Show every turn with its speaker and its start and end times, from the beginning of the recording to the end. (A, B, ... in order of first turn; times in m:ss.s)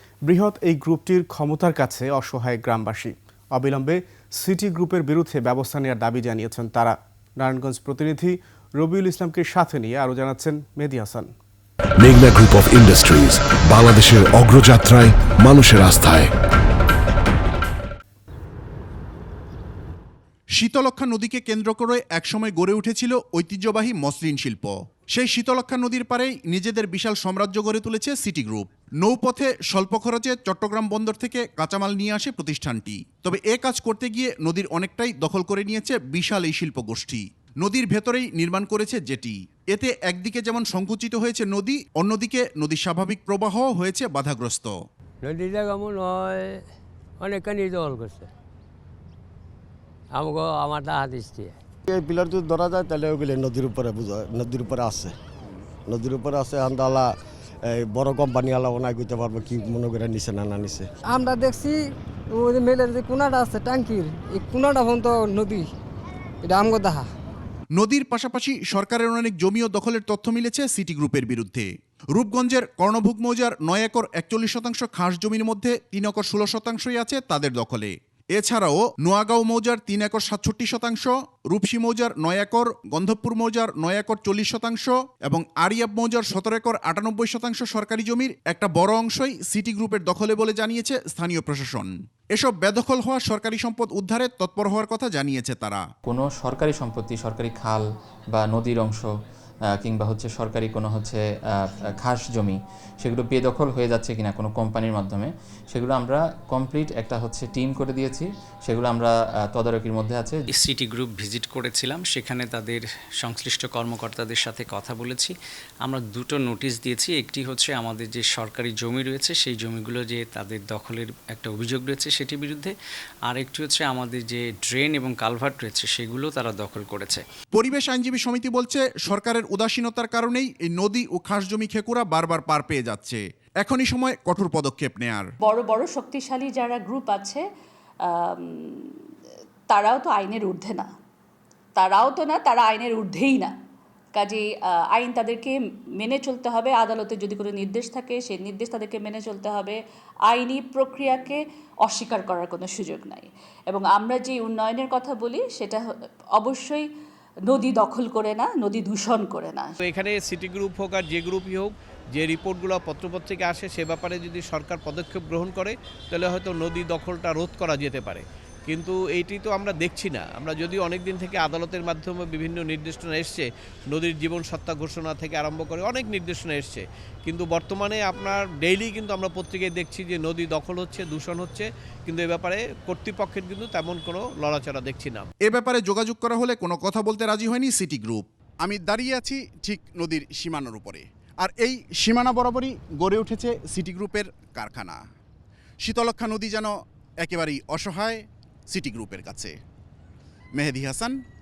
0:00.2-0:11.3 A
0:12.0-0:16.3 B
0:20.6-0:44.7 C
0:45.2-0:46.6 D
0:47.2-0:48.3 D
0:50.1-0:51.6 D
0:51.9-0:55.2 E
0:55.9-1:00.9 E
1:01.1-1:05.7 F
1:06.4-1:07.1 F
1:07.8-1:35.8 C
1:36.1-1:39.1 G
1:39.8-1:41.2 G
1:42.0-1:50.4 G
1:50.5-2:02.8 H
2:03.3-2:07.2 H
2:07.5-2:15.3 C
2:15.4-2:17.4 I
2:18.1-2:19.0 I
2:19.7-2:20.9 I
2:21.8-2:23.5 I
2:24.2-2:29.8 I
2:30.3-2:35.8 I
2:36.4-2:36.8 I
2:37.5-2:39.8 I
2:39.8-3:05.3 J
3:05.5-3:15.0 C
3:15.8-3:16.7 C
3:17.2-3:19.5 C
3:20.6-3:21.2 C